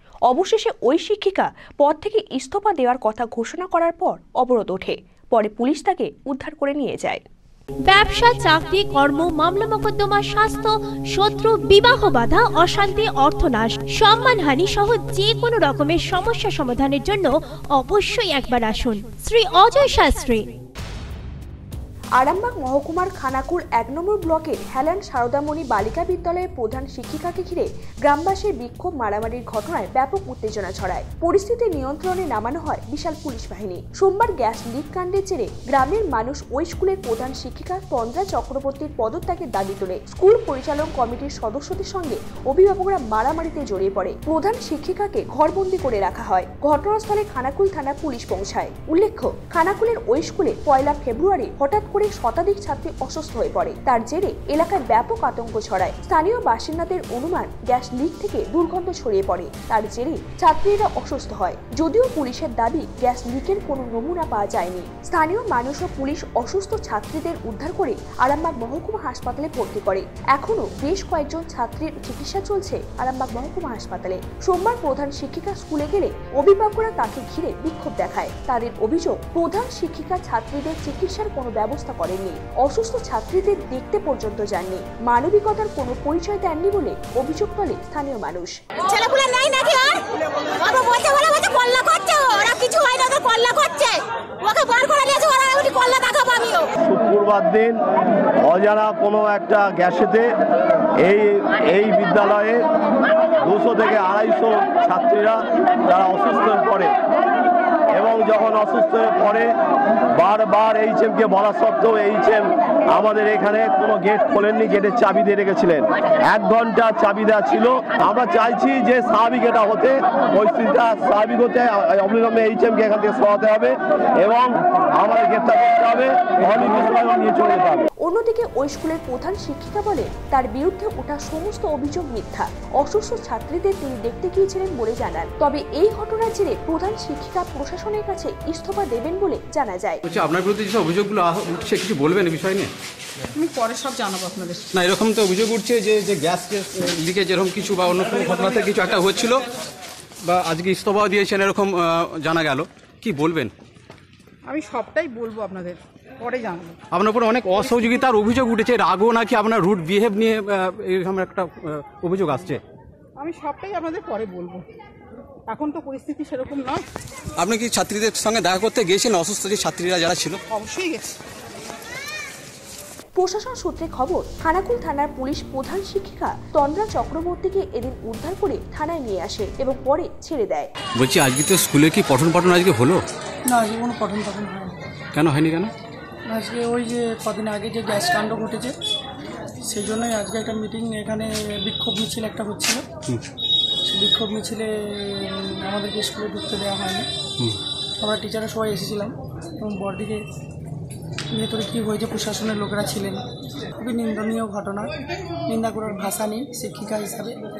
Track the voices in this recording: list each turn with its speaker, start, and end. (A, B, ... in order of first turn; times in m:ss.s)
0:00.3-0:07.2 A
0:07.9-0:20.5 B
0:22.2-1:28.5 A
1:28.8-1:30.0 C
1:30.6-1:36.7 C
1:36.8-1:37.8 D
1:38.4-1:40.4 D
1:41.0-1:42.7 D
1:43.4-1:47.0 D
1:47.9-1:49.5 D
1:50.1-2:07.9 D
2:08.0-2:20.0 A
2:20.1-2:22.7 E
2:23.4-2:24.6 F
2:24.7-2:29.4 E
2:30.2-2:33.5 E
2:34.5-2:36.8 F
2:36.9-2:42.6 E
2:37.6-2:38.0 F
2:43.2-2:44.6 F
2:45.5-2:46.8 F
2:47.4-2:50.4 E
2:50.5-2:51.2 F
2:53.2-3:00.7 A
3:01.0-3:03.0 E
3:03.5-3:04.8 G
3:05.1-3:05.7 E
3:06.3-3:08.8 G
3:09.7-3:12.8 G
3:13.9-3:17.1 G
3:18.0-3:20.2 G
3:21.3-3:23.2 G
3:23.8-3:24.9 G
3:25.5-3:27.4 G